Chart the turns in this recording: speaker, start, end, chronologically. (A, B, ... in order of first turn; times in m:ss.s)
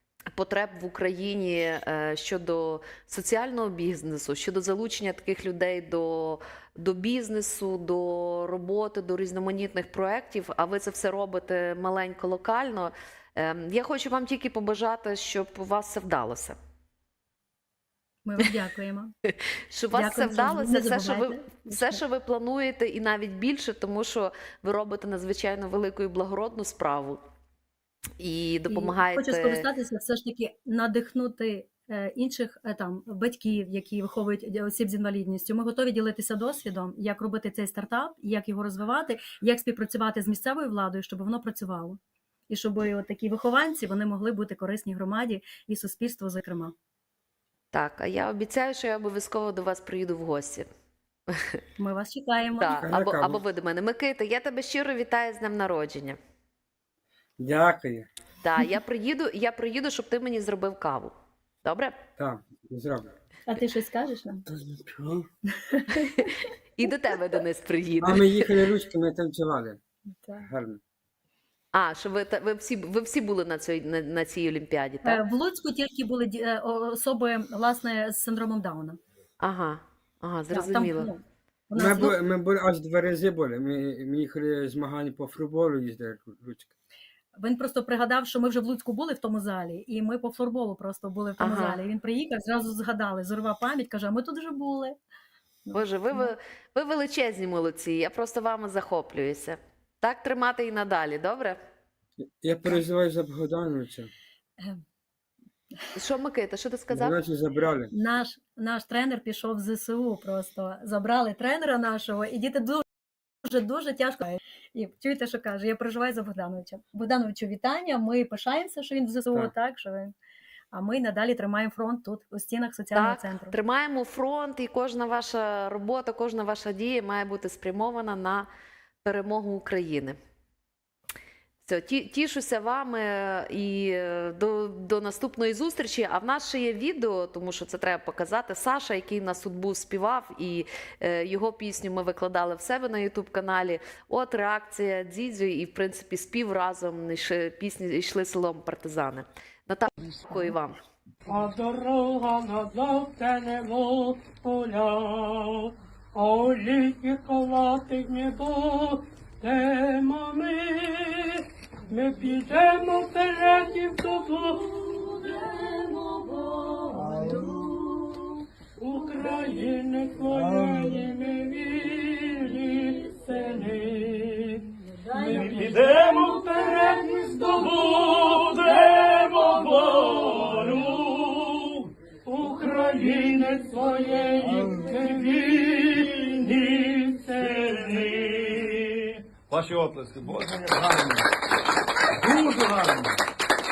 0:00.3-0:16.6 A
0:18.2-0:19.1 B
0:19.7-0:27.2 A
0:19.9-0:22.0 B
0:28.2-0:29.7 A
0:28.7-0:46.7 B
0:47.7-0:50.7 A
0:51.3-0:51.6 A
0:51.8-0:52.7 B
0:52.6-0:56.2 A
0:52.7-0:53.4 C
0:57.4-0:58.1 C
0:58.4-1:02.0 A
1:02.2-1:03.1 C
1:03.5-1:04.4 B
1:04.5-1:05.3 C
1:05.4-1:06.3 B
1:05.9-1:08.6 A
1:08.0-1:09.8 C
1:10.4-1:10.8 C
1:11.7-1:15.2 A
1:15.0-1:19.0 B
1:19.4-1:21.1 A
1:20.5-1:22.2 B
1:21.8-1:26.7 C
1:27.3-1:35.0 B
1:31.4-1:31.8 A
1:35.6-1:36.3 B
1:35.7-1:41.6 A
1:42.2-1:44.1 C
1:45.9-1:47.2 A
1:46.9-1:47.9 C
1:47.9-1:52.9 B
1:53.4-2:00.1 B
2:00.7-2:03.5 B
2:02.9-2:08.5 A
2:09.0-2:10.2 A
2:11.6-2:30.8 A
2:31.2-2:45.2 D
2:45.2-2:48.2 B
2:48.8-3:08.7 D
2:55.0-2:55.7 B
2:58.8-2:59.0 E
2:59.8-3:00.1 E
3:07.4-3:08.6 E
3:09.5-3:11.3 E
3:12.2-3:13.2 E